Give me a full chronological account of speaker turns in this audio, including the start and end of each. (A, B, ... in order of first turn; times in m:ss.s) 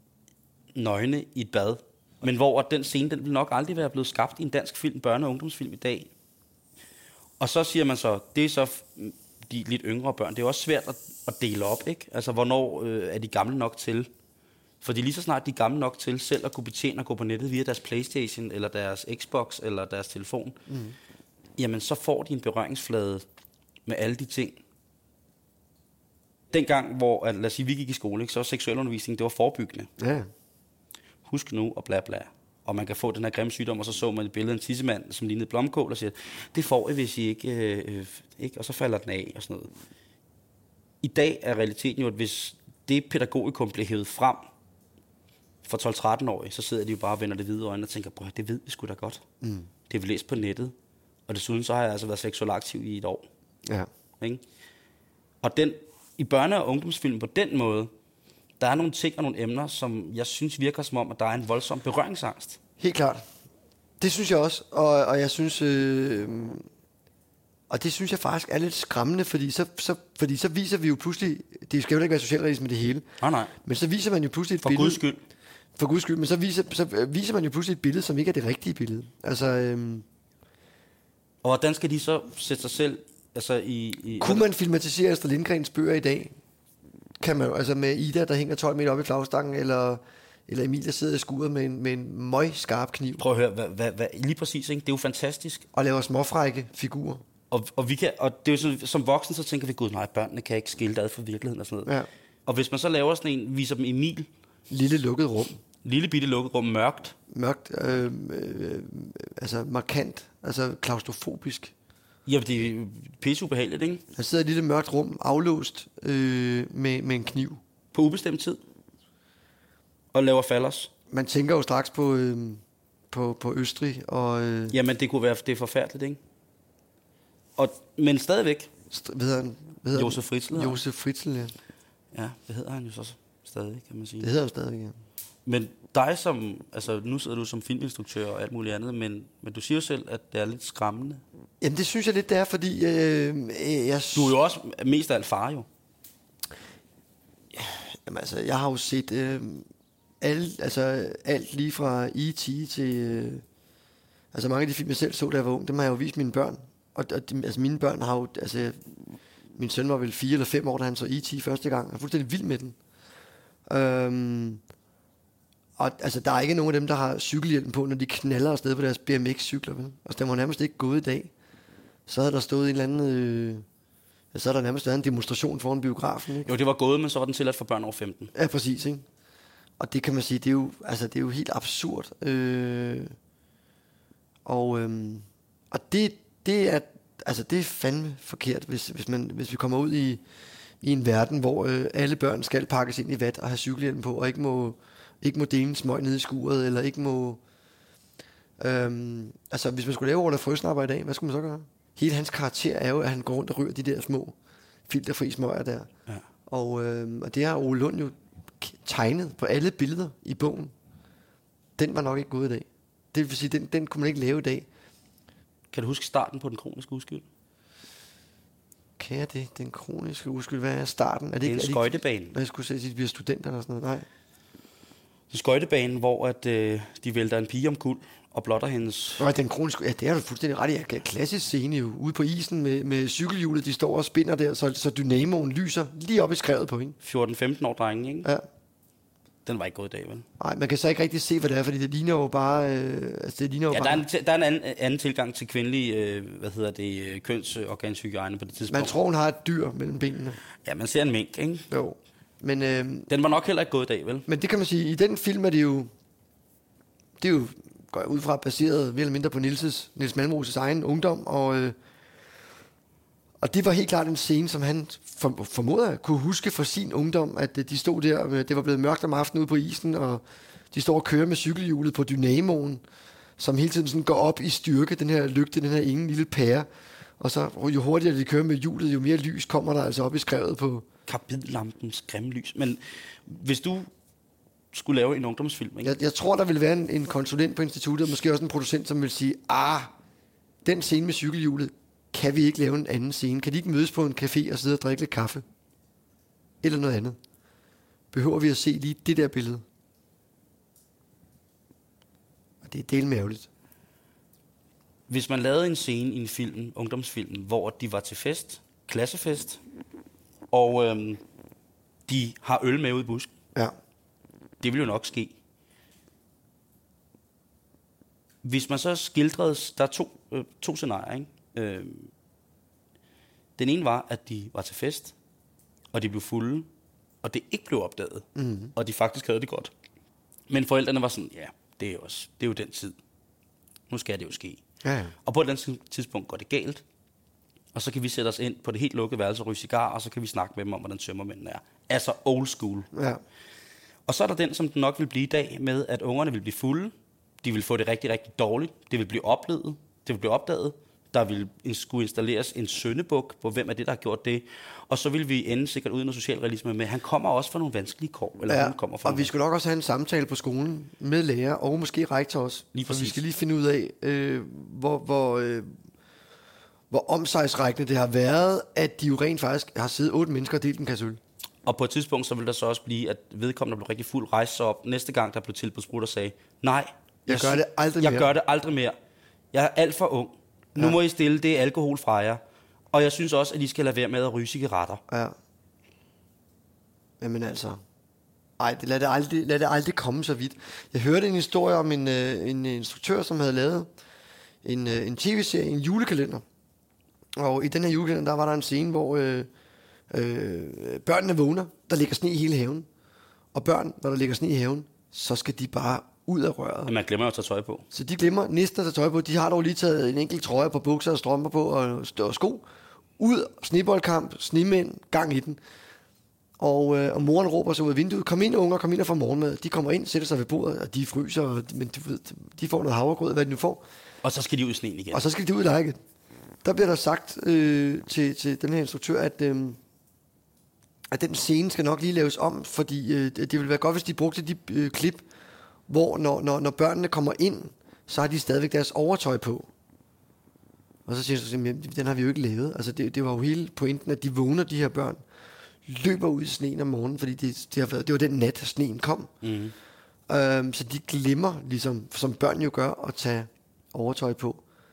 0:00.7-0:06.1 A
0:07.4-0:14.1 A
0:14.8-0:20.6 A
0:20.7-0:21.0 B
0:21.6-0:23.2 A
0:23.9-0:24.6 A
0:26.5-0:29.9 A
0:30.0-0:30.3 B
0:31.2-0:39.7 A
0:41.0-0:44.5 A
0:45.6-0:49.2 A
0:49.4-0:49.7 B
0:49.9-0:50.7 A
0:51.3-0:53.3 A
0:55.4-0:57.9 A
0:58.6-1:02.6 A
1:02.8-1:03.2 B
1:04.0-1:06.6 B
1:07.7-1:15.0 B
1:13.2-1:13.5 A
1:14.6-1:15.2 A
1:15.8-1:20.0 B
1:21.4-1:24.5 A
1:24.2-1:26.4 B
1:27.2-1:33.2 B
1:33.2-1:35.6 A
1:35.7-1:37.2 B
1:37.5-1:41.9 A
1:42.4-1:44.3 A
1:44.7-1:45.6 B
1:45.8-1:47.2 A
1:47.3-1:51.7 B
1:52.2-1:54.0 A
1:54.1-1:57.6 B
1:57.9-1:58.6 A
2:00.1-2:00.9 A
2:01.1-2:04.7 B
2:04.7-2:06.2 A
2:07.6-2:08.7 A
2:08.9-2:11.5 B
2:09.9-2:10.8 A
2:12.1-2:14.3 A
2:14.2-2:15.0 B
2:15.4-2:21.2 A
2:21.6-2:24.4 B
2:24.1-2:25.7 A
2:27.5-2:29.6 B
2:30.2-2:33.4 B
2:34.3-2:42.8 B
2:43.7-2:44.6 B
2:45.8-2:51.3 B
2:52.1-2:53.6 B
2:54.3-2:56.5 B
2:56.4-2:58.3 A
2:58.3-2:59.0 B
2:59.8-3:03.1 B
3:04.4-3:10.2 B
3:10.8-3:17.4 B
3:18.6-3:24.3 B
3:24.9-3:25.9 B
3:26.5-3:30.7 B
3:31.8-3:34.7 B
3:35.7-3:37.2 A
3:39.0-3:44.1 B
3:41.4-3:42.3 A
3:45.3-3:49.3 A
3:49.2-3:57.0 B
3:57.0-3:58.3 A
3:59.4-4:00.2 A
4:00.4-4:04.0 B
4:03.7-4:09.0 A
4:08.6-4:10.4 B
4:10.6-4:11.7 A
4:11.7-4:13.1 B
4:13.1-4:14.3 A
4:14.3-4:15.9 B
4:17.2-4:21.7 B
4:23.4-4:32.8 B
4:33.4-4:36.7 B
4:37.2-4:40.8 B
4:41.1-4:43.9 A
4:44.7-4:45.9 A
4:45.8-4:49.9 B
4:50.6-4:55.4 B
4:56.6-4:57.2 B
4:58.1-4:59.6 B
5:02.6-5:03.5 B
5:05.1-5:09.6 A
5:10.5-5:11.2 A
5:12.1-5:13.3 A
5:14.6-5:15.4 A
5:18.4-5:22.1 A
5:23.6-5:25.1 A
5:25.9-5:26.7 A
5:27.2-5:29.7 A
5:28.4-5:28.7 B
5:30.5-5:33.0 A
5:33.9-5:34.6 A
5:34.8-5:35.1 B
5:35.2-5:36.8 A
5:37.7-5:42.9 A
5:42.9-5:43.2 B
5:44.1-5:59.3 A
5:58.5-6:05.7 B
6:02.7-6:03.2 A
6:06.9-6:11.2 B
6:11.6-6:18.9 A
6:17.3-6:18.3 B
6:19.5-6:22.4 A
6:22.9-6:25.0 A
6:25.1-6:25.3 B
6:27.2-6:27.8 B
6:28.6-6:33.9 B
6:34.6-6:36.4 B
6:37.4-6:39.5 B
6:40.1-6:42.8 B
6:43.5-6:46.9 B
6:46.8-6:47.9 A
6:47.9-6:52.6 B
6:53.2-6:55.6 B
6:56.6-7:03.8 B
7:04.2-7:05.2 A
7:05.1-7:06.0 B
7:06.6-7:09.8 B
7:11.1-7:15.2 B
7:15.9-7:19.7 B
7:21.0-7:25.2 B
7:25.8-7:29.3 B
7:29.4-7:29.7 A
7:30.3-7:34.6 B